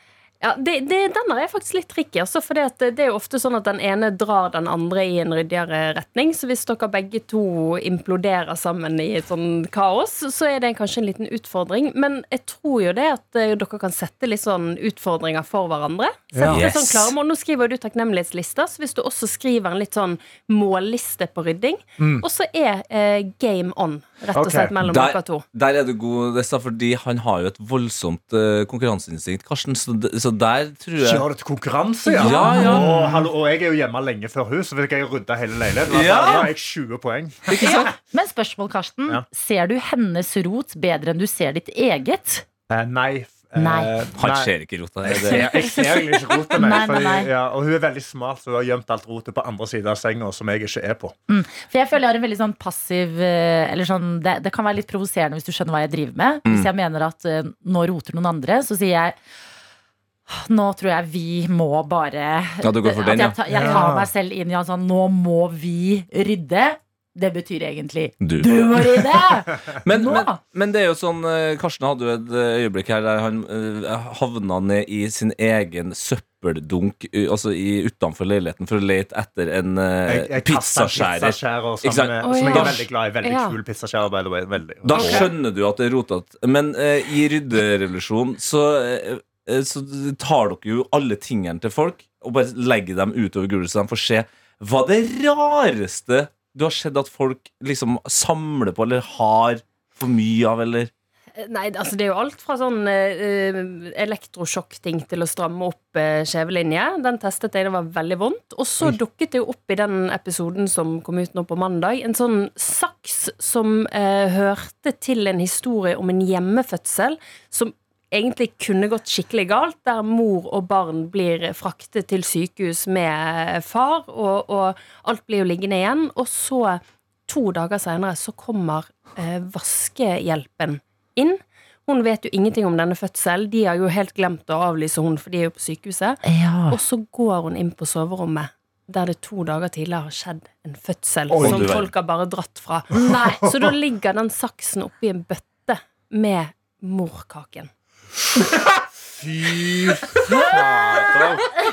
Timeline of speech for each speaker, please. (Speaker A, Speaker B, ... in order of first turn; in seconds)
Speaker A: 0.4-25.4, 82.2-83.6, 84.9-85.3, 101.4-147.7
Speaker B: 16.3-16.6, 22.0-22.2, 24.3-24.8, 31.0-37.6, 42.7-44.5, 45.0-51.1, 63.5-64.1, 80.1-85.3, 141.3-141.6, 143.0-143.7, 149.2-151.0
Speaker C: 16.5-17.1, 24.8-31.2, 32.2-32.9, 35.9-36.5, 37.5-37.9, 44.2-45.9, 62.6-63.4, 68.2-69.1, 69.8-82.7, 84.8-100.9, 141.4-141.9, 149.6-151.5
Speaker D: 32.1-33.2, 37.6-42.4, 43.5-44.0, 45.3-47.3, 51.3-59.1, 60.3-70.4, 136.2-136.8